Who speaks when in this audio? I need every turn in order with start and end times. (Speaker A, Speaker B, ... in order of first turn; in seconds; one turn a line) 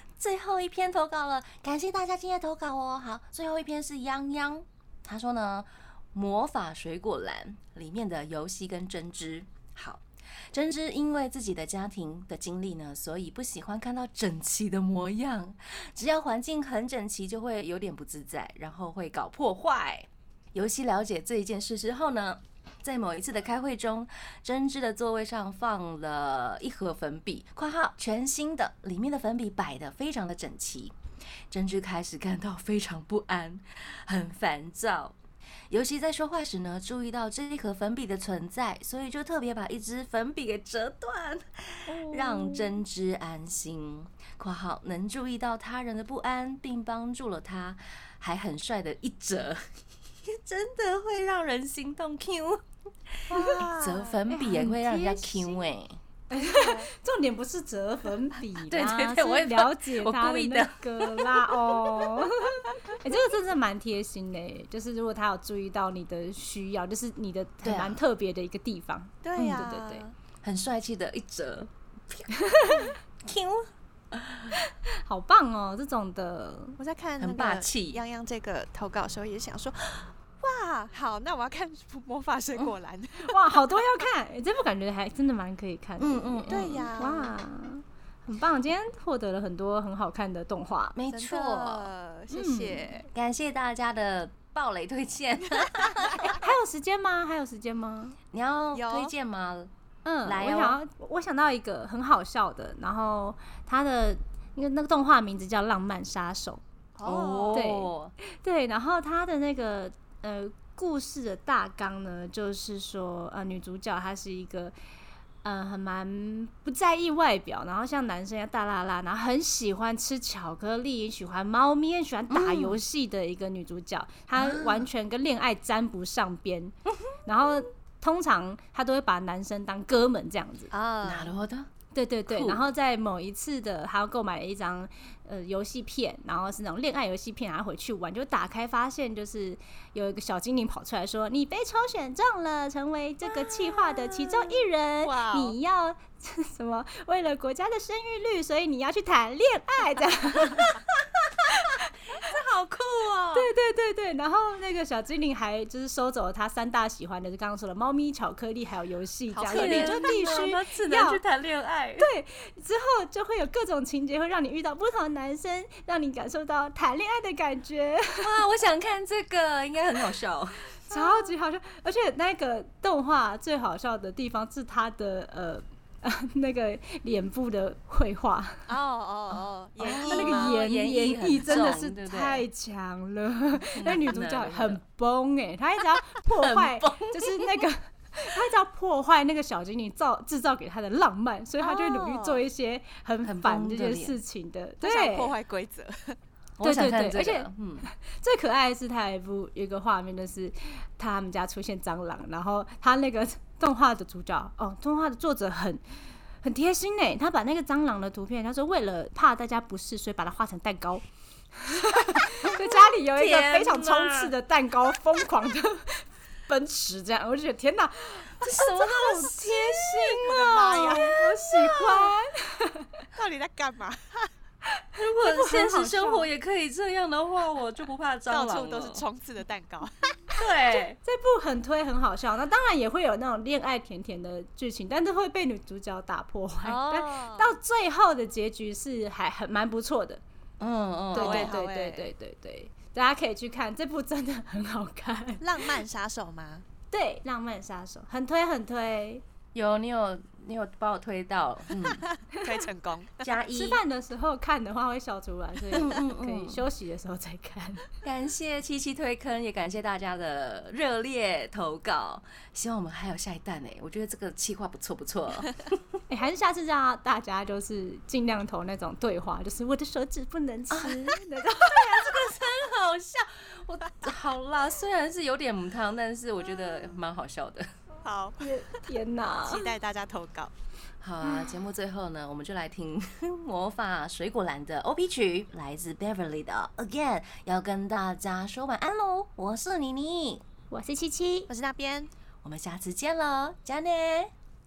Speaker A: 0.2-31.0
Speaker A: 31.5-35.2
Speaker A: 35.7-56.0
Speaker B: 41.9-42.8
Speaker C: 53.3-54.2
Speaker B: 54.3-55.6
Speaker B: 56.3-70.0
Speaker C: 56.4-56.9
Speaker A: 58.7-62.3
Speaker A: 67.6-68.0
Speaker C: 69.2-70.2
Speaker A: 69.4-69.7
Speaker A: 70.4-74.6
Speaker B: 72.5-72.9
Speaker B: 74.5-76.8
Speaker C: 76.8-83.8
Speaker A: 77.2-78.0
Speaker B: 83.2-91.0
Speaker A: 86.0-86.9
Speaker C: 86.5-87.3
Speaker A: 91.0-91.9
Speaker C: 91.1-93.1
Speaker B: 92.3-93.0
Speaker A: 93.1-96.4
Speaker B: 96.2-98.2
Speaker A: 98.3-99.7
Speaker C: 98.7-99.1
Speaker B: 100.0-106.6
Speaker A: 100.2-100.8
Speaker C: 107.0-107.7
Speaker A: 107.0-108.1
Speaker B: 107.5-114.8
Speaker B: 115.4-130.7
Speaker A: 122.3-122.8
Speaker A: 124.3-124.9
Speaker C: 130.7-131.3
Speaker A: 131.0-131.7
Speaker B: 131.9-150.8
Speaker A: 132.3-132.6
Speaker A: 143.3-144.3
Speaker C: 145.0-145.6
Speaker A: 151.2-151.6
Speaker A: 152.1-153.5
Speaker B: 153.3-161.2
Speaker C: 159.3-160.1
Speaker A: 159.5-162.1
Speaker B: 162.0-168.4
Speaker A: 168.2-170.8
Speaker B: 170.9-178.7
Speaker C: 178.7-180.6
Speaker A: 179.8-182.5
Speaker B: 179.8-195.3
Speaker A: 183.8-184.8
Speaker A: 186.3-187.6
Speaker C: 191.6-192.4
Speaker A: 193.2-194.2
Speaker C: 194.8-196.2
Speaker A: 196.6-197.9
Speaker B: 196.6-205.8
Speaker B: 206.4-211.0
Speaker B: 211.6-223.0
Speaker A: 212.3-214.3
Speaker A: 218.4-222.1
Speaker C: 220.3-221.1
Speaker C: 223.2-224.3
Speaker B: 224.7-226.3
Speaker A: 225.0-229.0
Speaker C: 228.3-230.2
Speaker A: 230.4-231.0
Speaker B: 231.0-240.2
Speaker C: 236.6-237.6
Speaker A: 240.6-241.6
Speaker C: 241.1-242.1
Speaker B: 241.1-245.8
Speaker C: 245.4-246.7
Speaker B: 246.9-249.2
Speaker A: 249.5-252.1
Speaker C: 251.9-253.3
Speaker A: 253.2-253.8
Speaker B: 253.5-257.9
Speaker A: 255.7-256.6
Speaker A: 258.0-265.8
Speaker B: 266.1-272.3
Speaker A: 270.7-277.7
Speaker C: 278.0-278.5
Speaker B: 278.4-279.7
Speaker C: 279.4-280.5
Speaker A: 281.0-290.4
Speaker B: 281.2-281.5
Speaker B: 290.7-291.5
Speaker C: 291.5-292.1
Speaker A: 292.4-294.3